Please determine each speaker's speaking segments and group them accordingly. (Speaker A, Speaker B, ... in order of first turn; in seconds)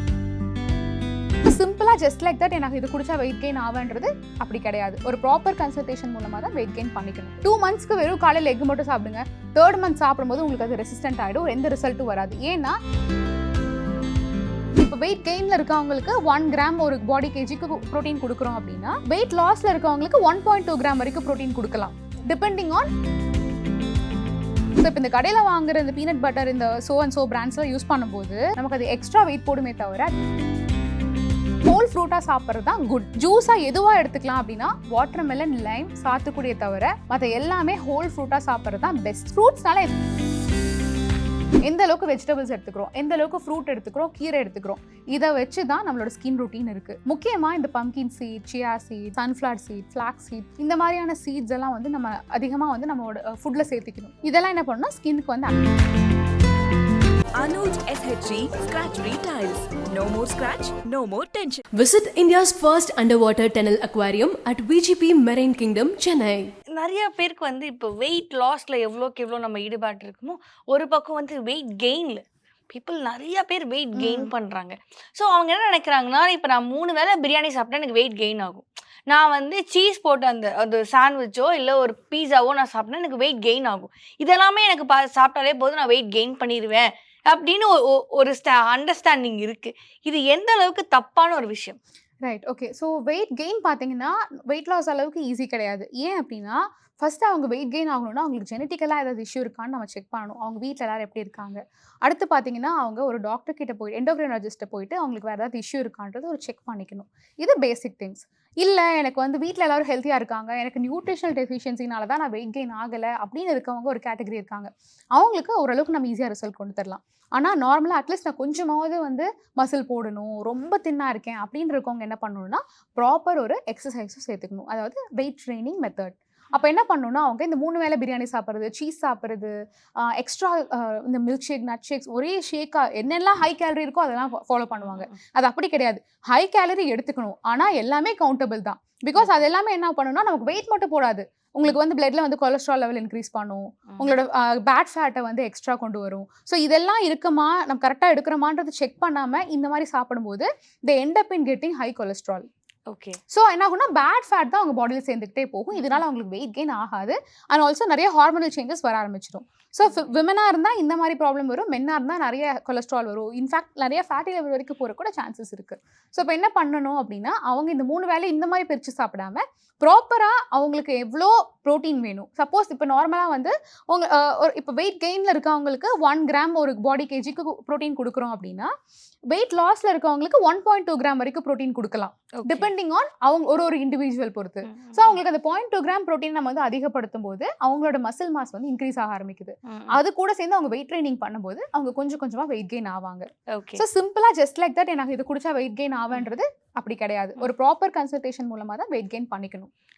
Speaker A: 1.4-12.8, 14.8-22.9, 24.8-30.1, 31.6-39.9, 41.6-55.6, 74.0-74.3, 92.2-129.5, 130.1-152.5, 153.3-178.7, 179.3-199.7
Speaker B: 57.4-61.6
Speaker C: 61.7-66.5
Speaker D: 66.8-91.8, 134.8-135.1, 152.9-153.2, 155.7-156.0, 182.4-182.7, 184.7-185.2, 189.7-189.9, 193.6-193.8